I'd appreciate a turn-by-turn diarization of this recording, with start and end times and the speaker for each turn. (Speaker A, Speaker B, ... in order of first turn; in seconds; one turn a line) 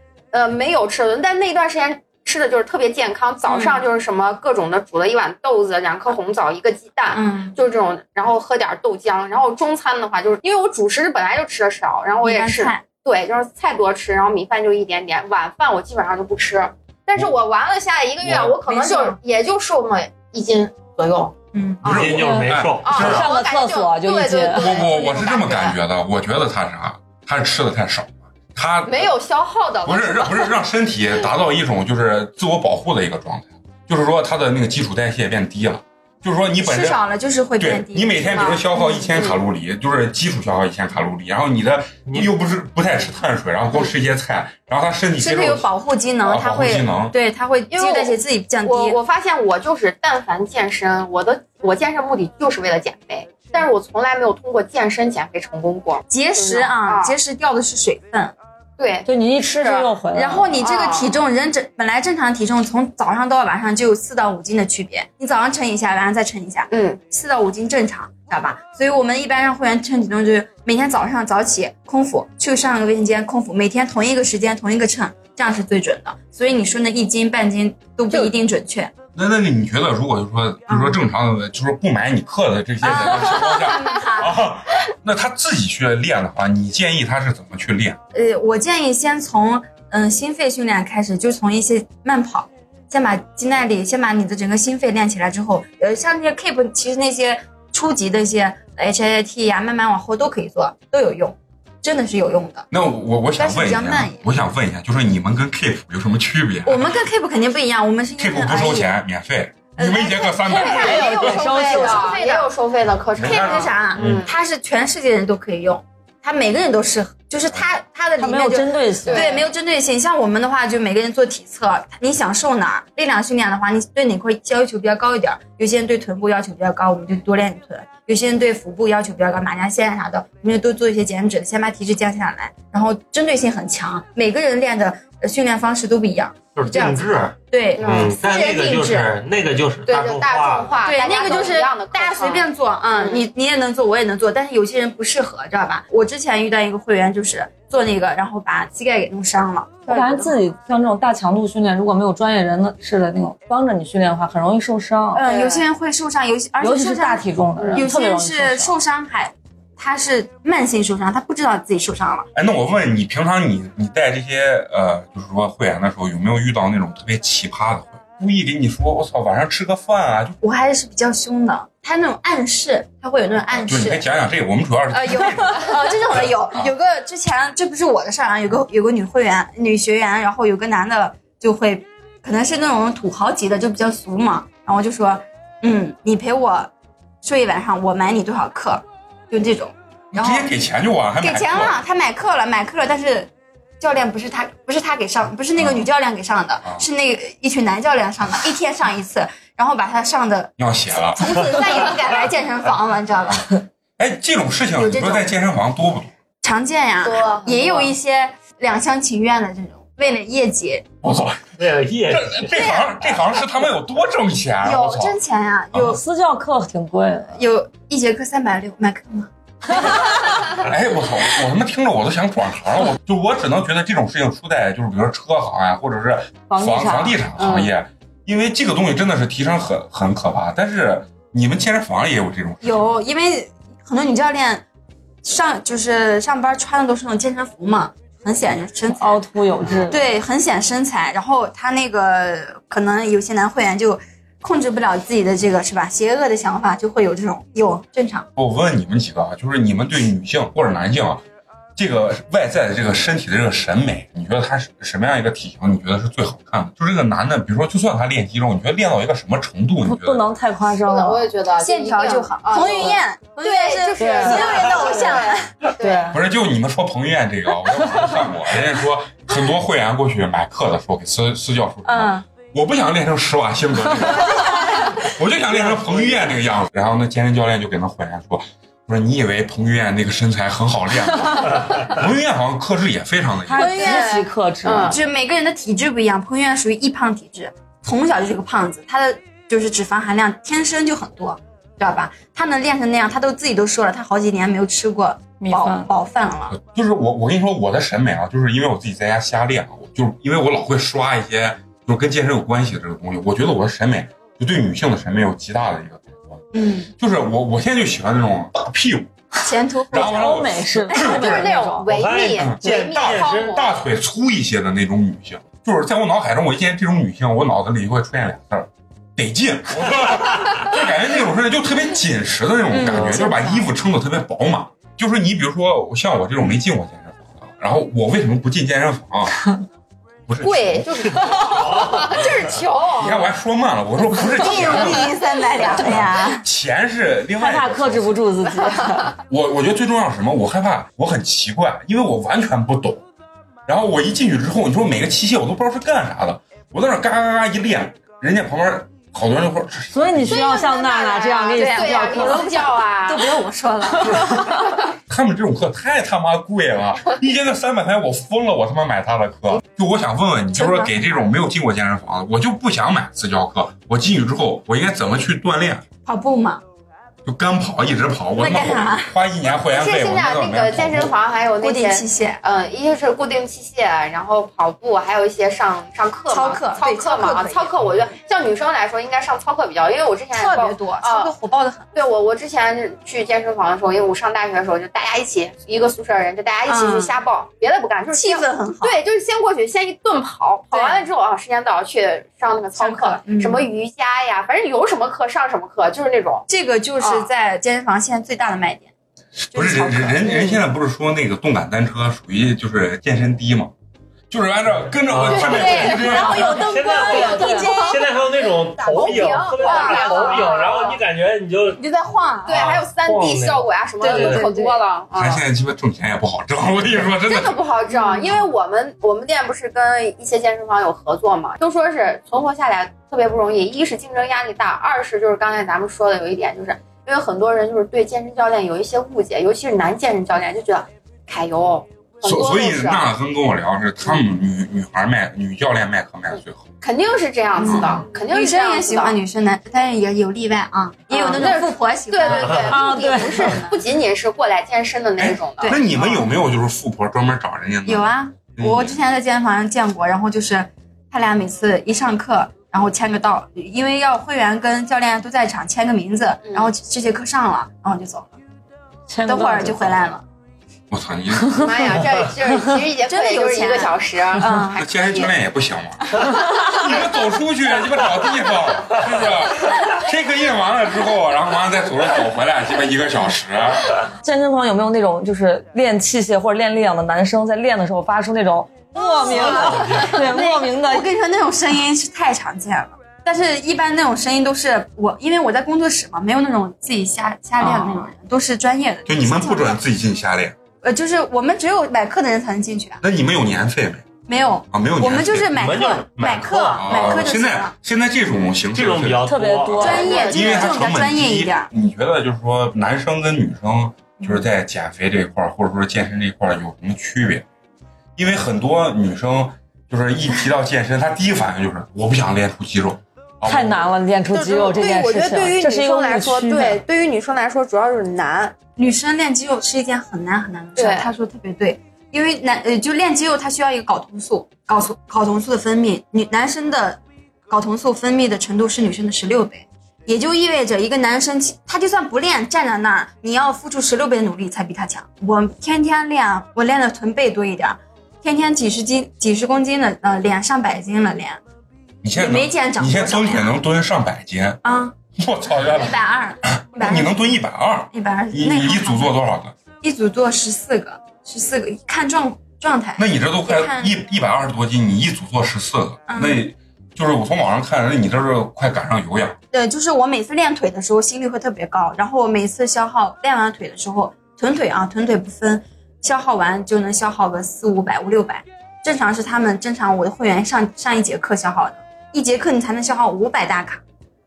Speaker A: 0.3-21.3
Speaker B: 3.5-3.9
Speaker B: 7.1-7.6
Speaker B: 12.2-12.9
Speaker B: 18.5-19.2
Speaker B: 21.5-22.1
Speaker C: 21.8-23.2
Speaker D: 21.9-23.2
Speaker E: 22.1-24.7
Speaker A: 22.8-25.8
Speaker C: 24.6-29.1
Speaker A: 28.9-30.6
Speaker C: 29.9-37.0
Speaker B: 36.6-39.3
Speaker C: 37.6-45.7
Speaker B: 45.2-49.0
Speaker C: 46.2-47.1
Speaker A: 47.7-57.2
Speaker B: 56.1-58.3
Speaker A: 58.8-59.9
Speaker E: 59.0-60.6
Speaker B: 60.1-78.9
Speaker A: 60.6-61.2
Speaker A: 66.7-67.0
Speaker C: 79.1-88.0
Speaker B: 80.7-81.0
Speaker B: 82.8-84.6
Speaker B: 88.1-102.7
Speaker C: 102.7-106.9
Speaker B: 103.4-104.3
Speaker B: 106.7-108.9
Speaker C: 108.2-111.4
Speaker B: 109.8-112.5
Speaker E: 110.5-112.2
Speaker A: 110.5-114.3
Speaker C: 113.2-114.2
Speaker B: 113.2-139.2
Speaker E: 118.2-119.4
Speaker A: 119.1-119.4
Speaker D: 136.6-140.8
Speaker A: 137.8-138.2
Speaker A: 139.9-143.2
Speaker B: 140.8-150.4
Speaker E: 149.9-155.2
Speaker B: 155.1-162.3
Speaker A: 155.3-155.7
Speaker E: 156.6-158.7
Speaker A: 157.6-157.9
Speaker C: 162.3-170.4
Speaker B: 170.4-174.0
Speaker C: 173.7-176.7
Speaker B: 174.9-186.7
Speaker B: 187.2-190.5
Speaker C: 190.1-191.8
Speaker B: 191.2-200.5
Speaker C: 195.6-195.9
Speaker C: 200.6-201.3
Speaker B: 201.1-203.5
Speaker C: 204.0-206.1
Speaker B: 204.8-205.3
Speaker B: 206.4-210.9
Speaker A: 207.0-208.0
Speaker C: 211.0-211.5
Speaker D: 211.6-212.7
Speaker C: 212.1-215.2
Speaker B: 212.5-212.9
Speaker B: 214.6-216.0
Speaker E: 215.8-217.3
Speaker B: 217.3-220.1
Speaker C: 220.6-232.8
Speaker E: 226.5-227.2
Speaker A: 227.4-227.7
Speaker B: 232.6-234.6
Speaker B: 235.2-248.3
Speaker E: 239.0-240.0
Speaker C: 248.4-251.2
Speaker C: 251.8-260.3
Speaker E: 259.9-261.3
Speaker A: 260.8-266.1
Speaker B: 261.6-265.5
Speaker E: 264.0-266.2
Speaker C: 266.1-283.7
Speaker B: 271.9-272.2
Speaker B: 274.1-275.0
Speaker D: 275.5-276.4
Speaker E: 283.5-284.9
Speaker B: 283.6-284.1
Speaker A: 283.6-285.0
Speaker B: 284.8-296.6
Speaker E: 295.4-295.9
Speaker C: 296.5-306.4
Speaker B: 306.5-306.9
Speaker C: 307.0-309.1
Speaker B: 309.4-310.5
Speaker C: 309.9-311.6
Speaker E: 309.9-311.9
Speaker A: 310.9-313.7
Speaker D: 311.8-313.5
Speaker C: 312.4-329.4
Speaker B: 322.7-323.7
Speaker D: 322.9-323.1
Speaker C: 330.3-332.2
Speaker A: 330.4-333.3
Speaker C: 333.0-338.2
Speaker B: 334.2-336.4
Speaker A: 334.3-335.1
Speaker E: 337.4-339.2
Speaker C: 339.3-343.0
Speaker C: 343.7-350.4
Speaker E: 349.9-352.8
Speaker A: 350.3-353.4
Speaker B: 351.5-354.6
Speaker C: 355.1-365.9
Speaker B: 360.5-361.2
Speaker B: 366.0-366.6
Speaker C: 367.2-371.1
Speaker B: 368.4-369.1
Speaker A: 369.7-381.3
Speaker B: 371.6-372.4
Speaker B: 376.3-377.8
Speaker B: 380.3-381.9
Speaker A: 381.9-396.5
Speaker B: 386.7-387.1
Speaker B: 388.1-389.0
Speaker B: 390.7-391.1
Speaker B: 392.8-393.7
Speaker B: 396.5-398.9
Speaker A: 397.0-397.3
Speaker C: 399.5-403.7
Speaker B: 399.5-400.7
Speaker C: 404.3-406.6
Speaker D: 404.8-411.8
Speaker A: 405.3-408.0
Speaker B: 405.4-410.8
Speaker E: 407.3-407.7
Speaker A: 408.9-411.0
Speaker B: 411.8-412.7
Speaker A: 412.5-415.4
Speaker D: 412.5-414.5
Speaker B: 414.0-414.8
Speaker C: 415.1-417.6
Speaker A: 417.3-433.1
Speaker B: 417.9-418.4
Speaker C: 432.2-436.6
Speaker A: 436.3-439.2
Speaker B: 437.6-443.8
Speaker C: 437.6-438.0
Speaker A: 441.1-446.0
Speaker E: 442.6-443.6
Speaker C: 445.2-449.0
Speaker B: 445.6-446.4
Speaker B: 447.9-458.4
Speaker A: 456.4-456.7
Speaker E: 459.1-460.0
Speaker B: 459.2-460.2
Speaker C: 460.9-462.0
Speaker A: 461.6-465.3
Speaker B: 463.1-465.2
Speaker C: 464.8-466.1
Speaker C: 466.7-474.0
Speaker E: 474.2-481.1
Speaker B: 479.1-489.8
Speaker D: 479.6-480.1
Speaker C: 489.1-490.6
Speaker B: 490.8-493.0
Speaker C: 493.0-494.1
Speaker B: 494.3-497.7
Speaker C: 494.7-495.5
Speaker D: 495.5-497.2
Speaker C: 496.8-507.4
Speaker D: 498.7-499.9
Speaker E: 499.2-500.3
Speaker B: 499.8-501.7
Speaker A: 500.0-500.7
Speaker B: 504.2-504.5
Speaker C: 508.2-513.9
Speaker E: 513.5-516.8
Speaker A: 514.3-518.6
Speaker B: 518.8-541.4
Speaker A: 520.8-521.1
Speaker C: 542.0-544.6
Speaker B: 542.1-543.6
Speaker B: 544.6-545.0
Speaker C: 545.2-549.5
Speaker B: 545.6-547.4
Speaker B: 547.9-549.2
Speaker B: 549.8-554.0
Speaker C: 553.0-559.4
Speaker B: 556.1-556.5
Speaker B: 559.5-573.8